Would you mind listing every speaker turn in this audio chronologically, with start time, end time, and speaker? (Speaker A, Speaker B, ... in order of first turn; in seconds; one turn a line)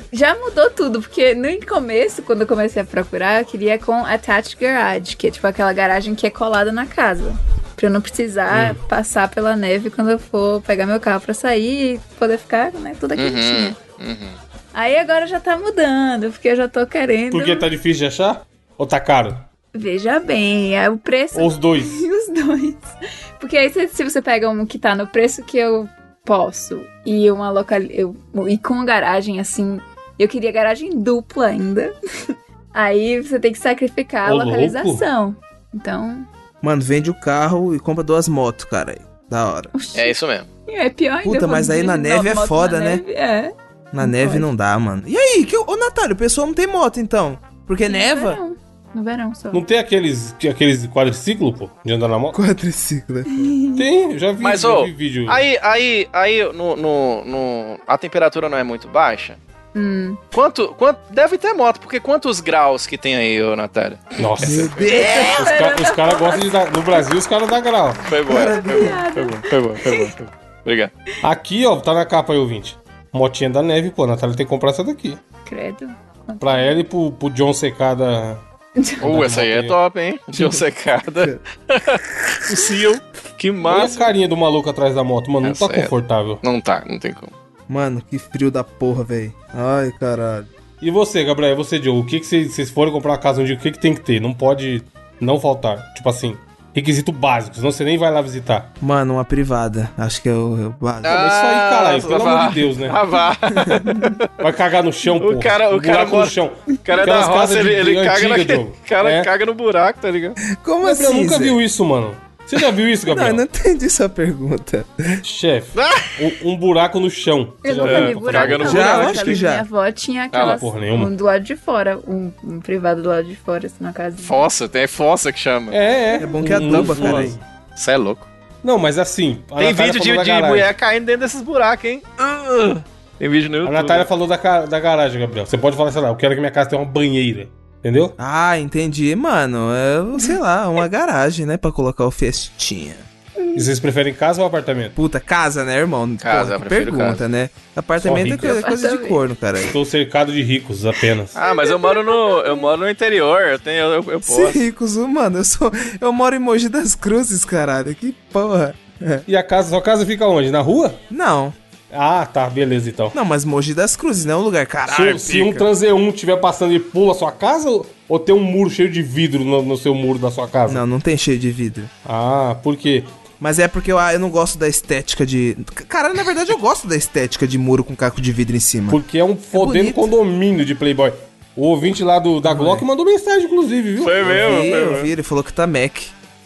Speaker A: 0.1-13.8
Speaker B: 8.5-8.8
Speaker C: 13.2-14.4
Speaker A: 14.7-17.7
Speaker B: 17.3-19.4
Speaker A: 19.7-31.9
Speaker B: 21.3-22.0
Speaker A: 32.7-36.3
Speaker B: 34.2-35.0
Speaker D: 36.6-39.7
Speaker A: 39.7-40.1
Speaker C: 39.9-40.5
Speaker A: 40.7-44.5
Speaker D: 41.2-43.0
Speaker D: 43.9-48.4
Speaker A: 47.9-49.6
Speaker B: 49.5-52.4
Speaker D: 52.3-53.6
Speaker A: 53.3-53.8
Speaker B: 53.8-55.4
Speaker C: 54.4-59.4
Speaker A: 59.7-60.2
Speaker C: 60.3-65.3
Speaker B: 64.2-64.7
Speaker D: 64.4-65.4
Speaker A: 64.9-67.0
Speaker B: 65.4-68.1
Speaker C: 68.1-70.9
Speaker D: 68.3-69.0
Speaker A: 68.3-70.1
Speaker B: 71.2-75.2
Speaker A: 75.5-76.8
Speaker B: 76.4-78.4
Speaker A: 78.8-79.0
Speaker B: 79.0-79.8
Speaker C: 79.0-84.1
Speaker D: 80.3-81.4
Speaker B: 83.6-86.4
Speaker C: 85.4-85.9
Speaker C: 86.4-87.3
Speaker D: 87.7-90.5
Speaker B: 90.8-98.7
Speaker D: 98.8-101.2
Speaker C: 101.0-104.3
Speaker B: 101.0-103.0
Speaker B: 104.4-109.3
Speaker C: 105.0-110.4
Speaker D: 110.5-111.6
Speaker B: 110.8-113.4
Speaker D: 113.0-115.2
Speaker B: 115.2-118.9
Speaker C: 115.7-116.1
Speaker A: 117.6-124.4
Speaker C: 117.8-119.4
Speaker D: 118.6-119.6
Speaker C: 120.3-120.6
Speaker B: 120.4-121.1
Speaker C: 124.2-125.8
Speaker B: 125.7-127.4
Speaker D: 126.2-127.3
Speaker C: 126.6-128.3
Speaker B: 128.6-130.7
Speaker C: 129.6-134.1
Speaker B: 133.6-138.1
Speaker D: 138.2-143.1
Speaker B: 143.5-144.9
Speaker D: 144.9-149.7
Speaker C: 146.2-147.2
Speaker B: 148.0-148.6
Speaker A: 148.2-149.2
Speaker B: 149.7-151.3
Speaker C: 151.3-154.6
Speaker A: 151.4-152.7
Speaker D: 154.2-159.2
Speaker B: 159.3-161.0
Speaker D: 161.1-161.6
Speaker B: 161.9-163.2
Speaker D: 163.1-165.7
Speaker B: 164.9-170.8
Speaker D: 170.7-171.9
Speaker B: 172.0-173.2
Speaker D: 173.4-179.0
Speaker B: 178.9-184.7
Speaker D: 179.5-180.1
Speaker D: 182.4-182.9
Speaker C: 184.0-185.1
Speaker D: 184.2-186.1